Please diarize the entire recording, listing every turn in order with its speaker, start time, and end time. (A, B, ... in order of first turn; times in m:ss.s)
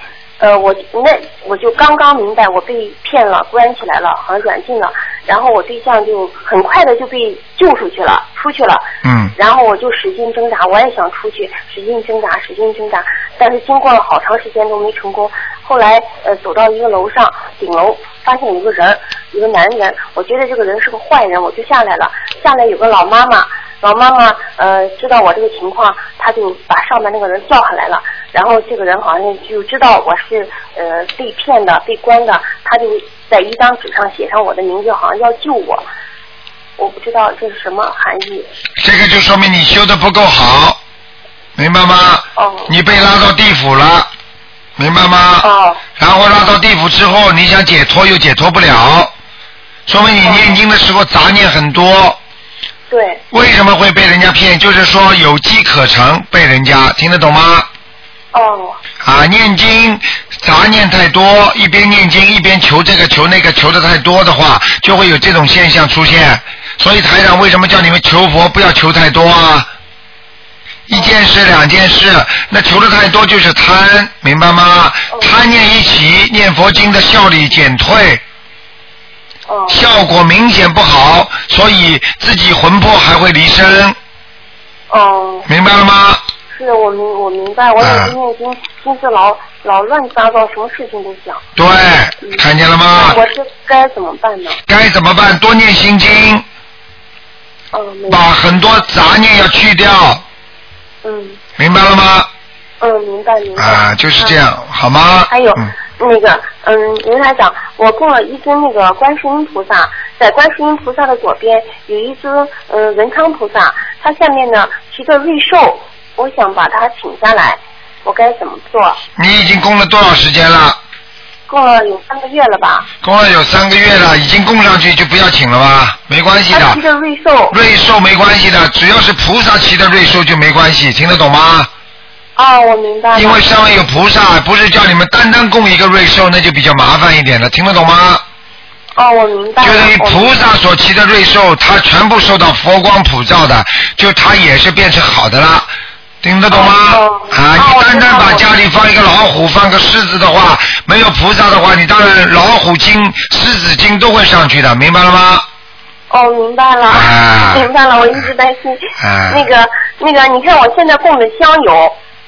0:00.4-0:08.8 A
0:09.0-0:09.3 B
0:09.4-0:35.8 A
0:36.8-0:38.5 A
0:38.8-0:40.8 B
0:41.6-0:44.1 B
0:42.4-0:42.7 A
0:44.8-0:49.1 B
0:45.4-0:45.8 A
0:49.9-0:52.2 B
0:50.2-0:50.6 A
0:52.9-0:53.2 A
0:53.3-0:57.7 B
0:58.3-0:58.8 A
0:59.0-1:09.7 B
1:10.9-1:18.2 B
1:19.5-1:19.8 A
1:19.7-1:24.0 B
1:24.9-1:25.5 A
1:25.5-1:26.2 B
1:26.5-1:31.4 A
1:27.8-1:28.1 B
1:31.6-1:33.2 B
1:32.9-1:34.6 A
1:34.7-1:36.4 B
1:37.7-1:38.3 A
1:38.1-1:40.2 B
1:41.0-1:41.4 A
1:41.6-1:42.3 B
1:42.8-1:44.4 A
1:43.6-1:45.7 B
1:45.3-1:59.0 A
1:59.2-2:00.8 B
2:01.5-2:02.9 A
2:03.0-2:06.8 B
2:06.5-2:07.6 A
2:07.5-2:11.7 B
2:12.4-2:13.5 A
2:13.2-2:18.2 B
2:19.0-2:20.4 A
2:19.6-2:25.7 B
2:26.2-2:35.4 B
2:26.5-2:28.5 A
2:36.1-2:42.0 A
2:36.9-2:37.7 B
2:39.0-2:39.4 B